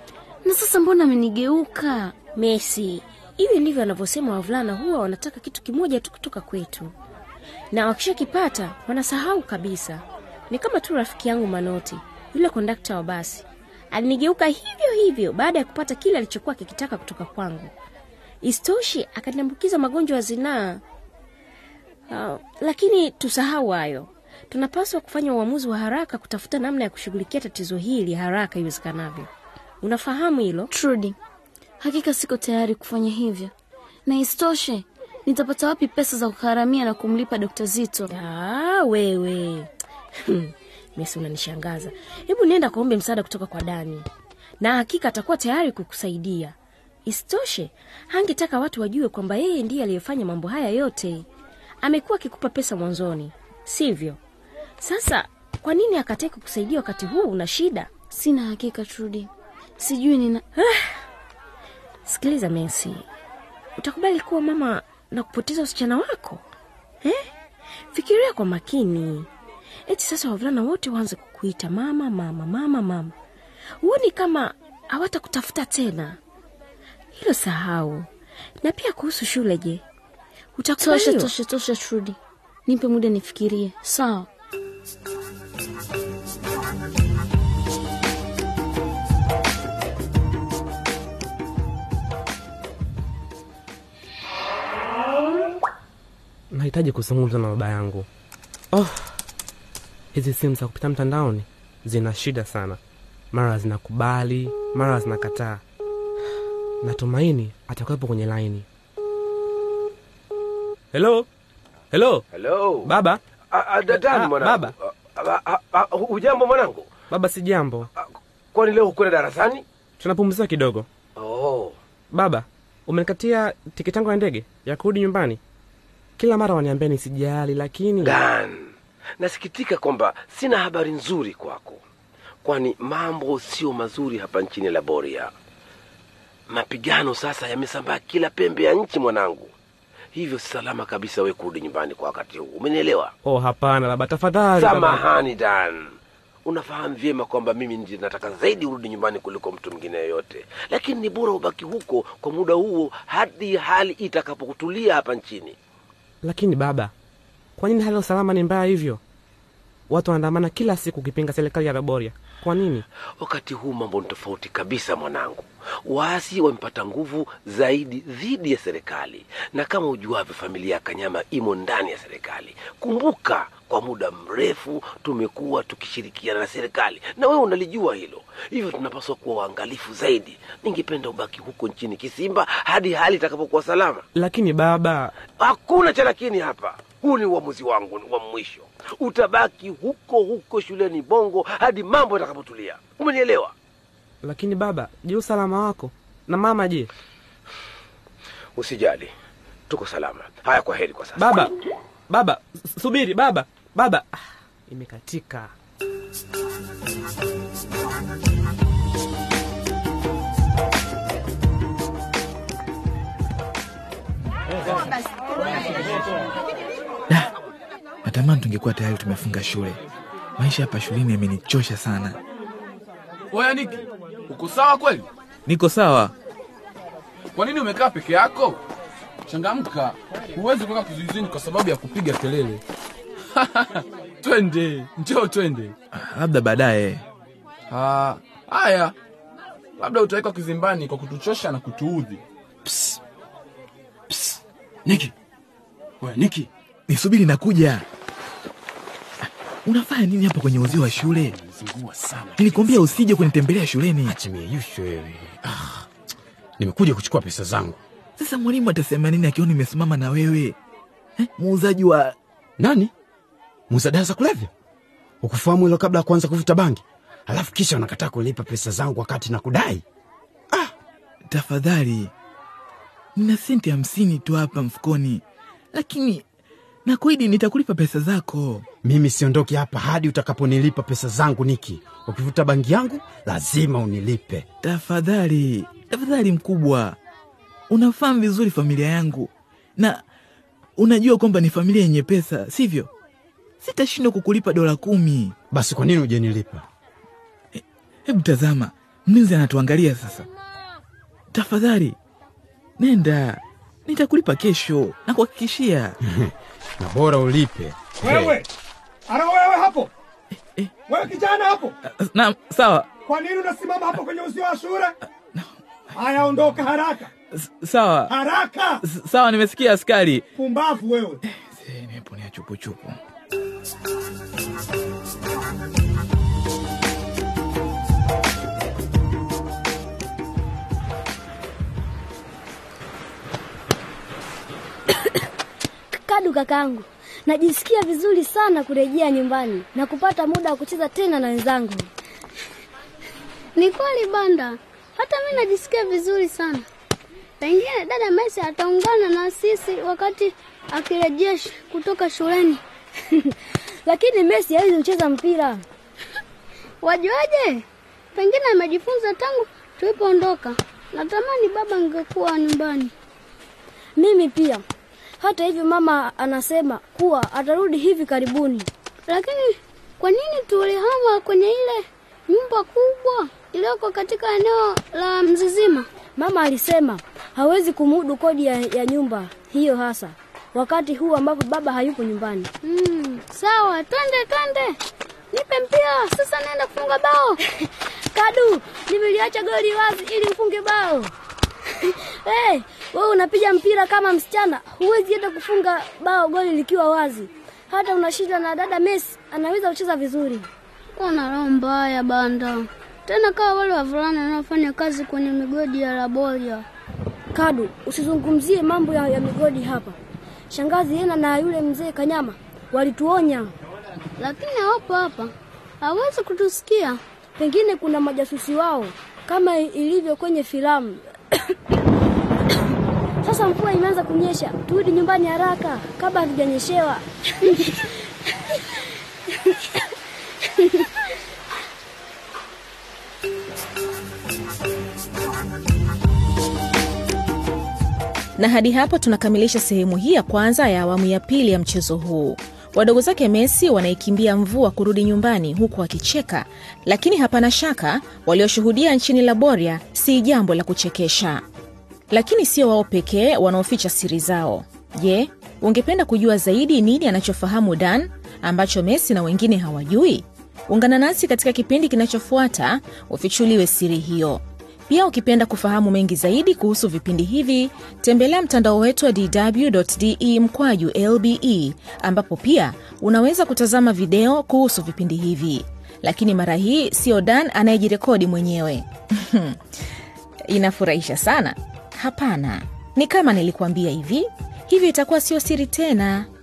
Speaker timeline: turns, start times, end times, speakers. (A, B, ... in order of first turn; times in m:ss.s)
0:00.4-0:02.2 A
0:02.4-0:06.9 B
0:07.7-0:17.7 B
0:18.4-0:20.8 B
0:22.1-0:29.3 B
0:29.8-0:30.7 B
0:30.7-0:31.2 A
0:31.8-0:33.5 A
0:34.1-0:38.1 A
0:38.1-0:39.7 B
0:40.3-0:44.1 B
0:44.6-0:46.6 B
0:47.1-0:51.3 B
0:51.8-0:54.2 B
0:54.8-0:58.0 B
0:58.1-1:00.4 A
1:02.1-1:03.1 B
1:03.8-1:06.4 B
1:07.9-1:09.3 B
1:09.9-1:13.1 B
1:13.8-1:16.2 B
1:17.2-1:18.1 B
1:18.6-1:19.8 B
1:20.6-1:21.3 B
1:20.8-1:24.3 A
1:36.5-1:38.1 C
1:38.7-1:39.1 C
1:40.1-1:42.8 C
1:43.3-1:45.6 C
1:46.8-1:48.7 C
1:50.9-1:51.3 C
1:51.9-1:52.2 C
1:52.3-1:52.9 D
1:52.8-1:53.2 C
1:53.5-1:56.9 D
1:53.9-1:54.8 C
1:57.1-1:57.9 C
1:58.0-1:59.6 D
2:00.0-2:00.9 C
2:01.2-2:01.8 D
2:02.1-2:05.4 C
2:06.2-2:08.2 C
2:08.0-2:08.7 D
2:09.2-2:11.8 D
2:12.4-2:15.3 D
2:16.5-2:19.5 D
2:20.2-2:23.1 D
2:23.2-2:25.1 C
2:24.6-2:25.8 D
2:26.4-2:35.6 D
2:36.2-2:36.9 C
2:37.6-2:39.0 C
2:39.9-2:42.8 C
2:43.2-3:04.0 D
3:04.2-3:05.1 C
3:05.4-3:13.5 D
3:14.2-3:16.9 C
3:18.6-3:19.1 D
3:19.7-3:21.4 D
3:21.2-3:21.5 C
3:22.1-3:25.5 C
3:38.0-3:39.8 E
3:40.4-3:42.2 E
3:43.3-3:45.1 F
3:45.5-3:46.1 E
3:47.4-3:48.6 F
3:49.3-3:52.6 F
3:53.4-3:55.8 F
3:55.9-3:57.0 E
3:57.7-3:59.0 F
3:59.8-4:02.2 F
4:04.9-4:05.1 G
4:06.9-4:07.8 E
4:09.6-4:11.3 E
4:10.7-4:13.0 G
4:12.4-4:14.2 E
4:14.0-4:15.9 G
4:16.6-4:17.8 G
4:18.2-4:20.6 E
4:21.2-4:22.2 E
4:22.6-4:22.9 G
4:23.7-4:24.5 G
4:25.2-4:29.8 G
4:31.3-4:32.1 E
4:33.2-4:36.2 E
4:36.9-4:38.6 E
4:38.8-4:44.5 G
4:44.6-4:47.0 E
4:47.7-4:50.0 E
4:50.8-4:52.9 E
4:53.6-4:55.4 E
4:55.5-4:56.6 G
4:57.6-5:00.3 E
5:01.3-5:02.0 E
5:02.8-5:06.0 E
5:06.0-5:08.0 G
5:08.0-5:08.5 H
5:08.0-5:08.4 E
5:09.1-5:09.9 H
5:10.9-5:11.7 H
5:12.0-5:12.9 E
5:13.1-5:14.9 H
5:16.0-5:17.1 H
5:17.3-5:18.2 E
5:18.1-5:18.8 H
5:18.8-5:20.3 E
5:20.4-5:21.2 H
5:21.2-5:23.0 E
5:35.9-5:41.9 I
5:43.6-5:46.6 J
5:47.4-5:52.6 J
5:53.8-5:55.6 I
5:56.8-5:57.6 J
5:58.2-6:02.9 J
6:04.0-6:04.6 I
6:05.2-6:08.7 I
6:09.1-6:15.9 J
6:16.2-6:22.5 I
6:22.6-6:24.7 J
6:25.5-6:27.3 J
6:28.1-6:31.1 I
6:31.9-6:40.5 I
6:41.0-6:46.6 J
6:47.3-6:50.0 I
6:50.5-6:53.5 I
6:54.2-6:55.3 J
6:55.8-6:57.0 J
6:57.4-7:01.4 I
7:03.2-7:07.8 I
7:18.4-7:31.4 K
7:32.1-7:59.6 K
8:00.5-8:06.3 K